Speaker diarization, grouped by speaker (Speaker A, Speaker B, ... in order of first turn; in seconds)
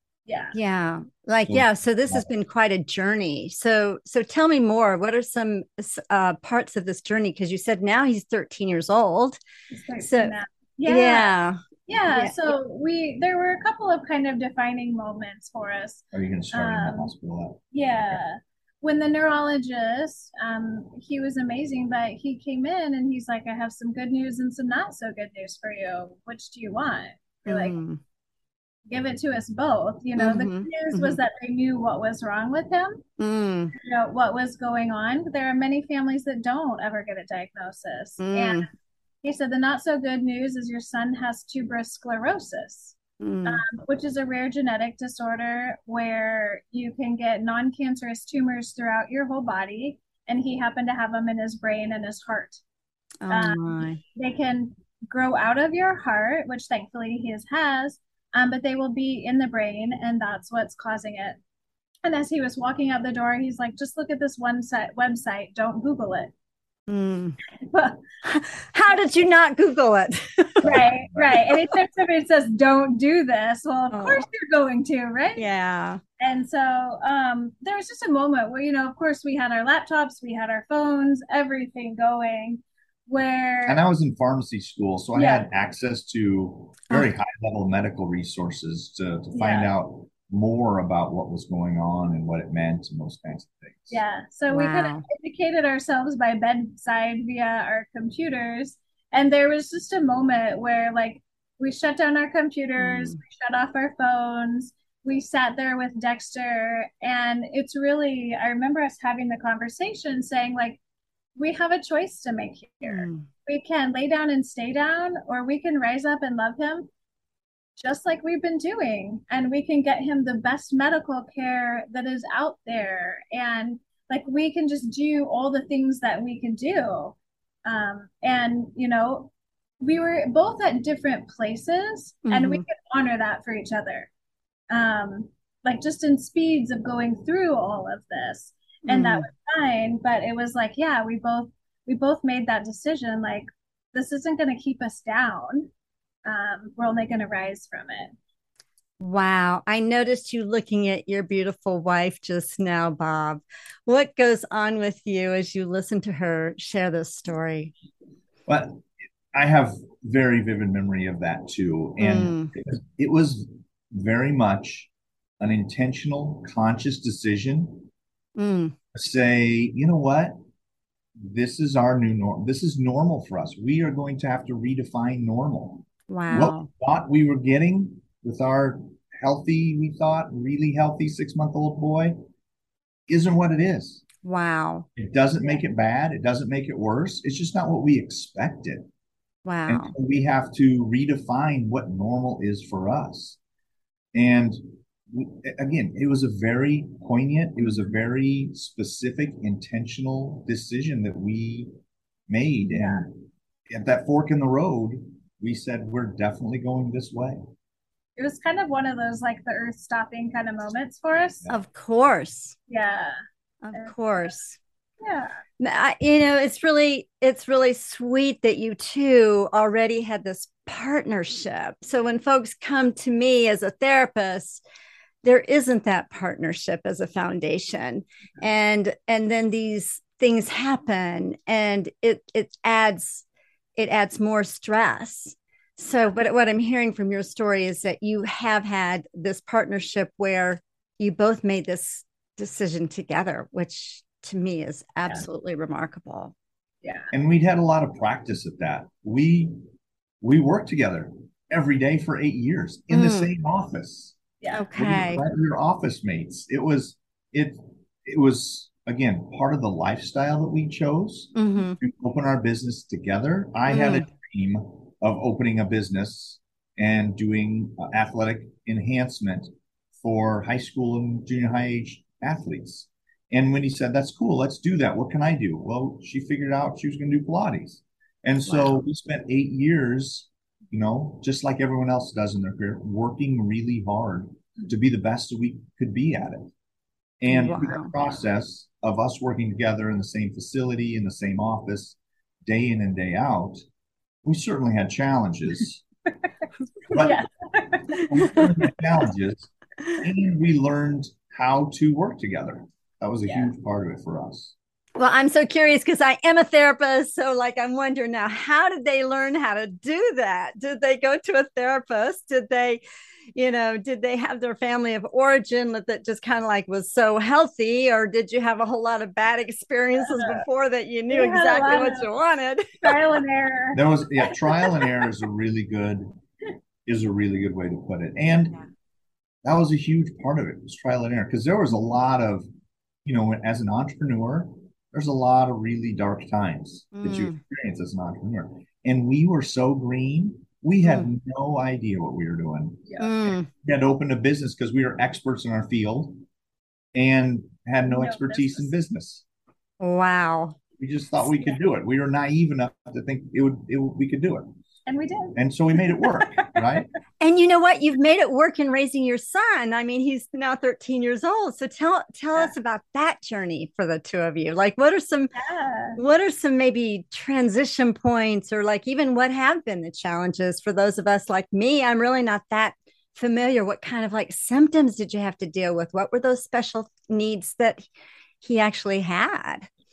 Speaker A: 0.3-0.6, 9.7-17.1, 17.7-27.8, 28.9-33.0, 33.7-38.7, 39.2-52.6, 53.3-61.4, 62.0-66.3, 67.7-68.0, 70.6-75.5, 76.2-83.8, 85.2-85.5, 89.3-89.7, 93.9-110.8, 111.4-116.9, 117.8-134.1, 134.7-145.7, 146.3-148.2, 202.7-203.1, 208.2-211.5, 212.7-213.2, 213.7-214.3, 215.0-215.4, 246.8-247.1, 254.4-254.7, 296.9-298.4, 303.3-303.5, 320.1-320.4, 321.1-322.1, 322.8-324.9, 347.9-348.7, 354.9-356.6, 365.4-366.0
Speaker B: 0.5-9.4, 10.0-10.3, 10.9-11.6, 12.1-12.5, 27.5-28.0, 30.2-31.2, 33.2-33.7, 38.2-38.7, 43.2-43.6, 53.2-54.0, 66.9-67.4, 68.2-70.7, 73.9-74.2, 75.4-76.0, 94.5-95.0, 102.8-103.2, 112.9-113.3, 132.3-132.7, 138.9-139.3, 149.0-157.7, 162.0-162.5, 168.4-168.8, 176.1-176.7, 184.2-184.9, 189.4-189.9, 211.5-212.6, 213.6-214.6, 215.6-224.6, 225.2-233.2, 233.8-246.3, 252.9-253.3, 254.5-255.2, 261.4-261.8, 263.7-264.1, 278.5-278.8, 287.3-287.9, 305.0-312.8, 313.3-323.0, 336.9-337.4, 343.0-343.5, 349.8-350.6, 357.2-365.3, 366.0-377.9, 378.4-379.7
Speaker C: 1.5-2.2, 16.1-18.2, 70.6-71.5, 83.7-94.0, 158.5-167.9, 168.9-170.3, 171.2-182.2, 183.1-184.0, 185.0-188.9, 189.7-193.4, 194.1-201.7, 202.3-207.4, 247.1-249.6, 250.2-254.2, 254.7-286.5, 287.2-293.6, 294.2-295.8, 296.9-297.2, 298.1-304.6, 323.7-326.1, 326.9-328.6, 329.4-332.5, 333.1-346.2, 346.9-349.2, 350.8-354.5, 355.4-356.9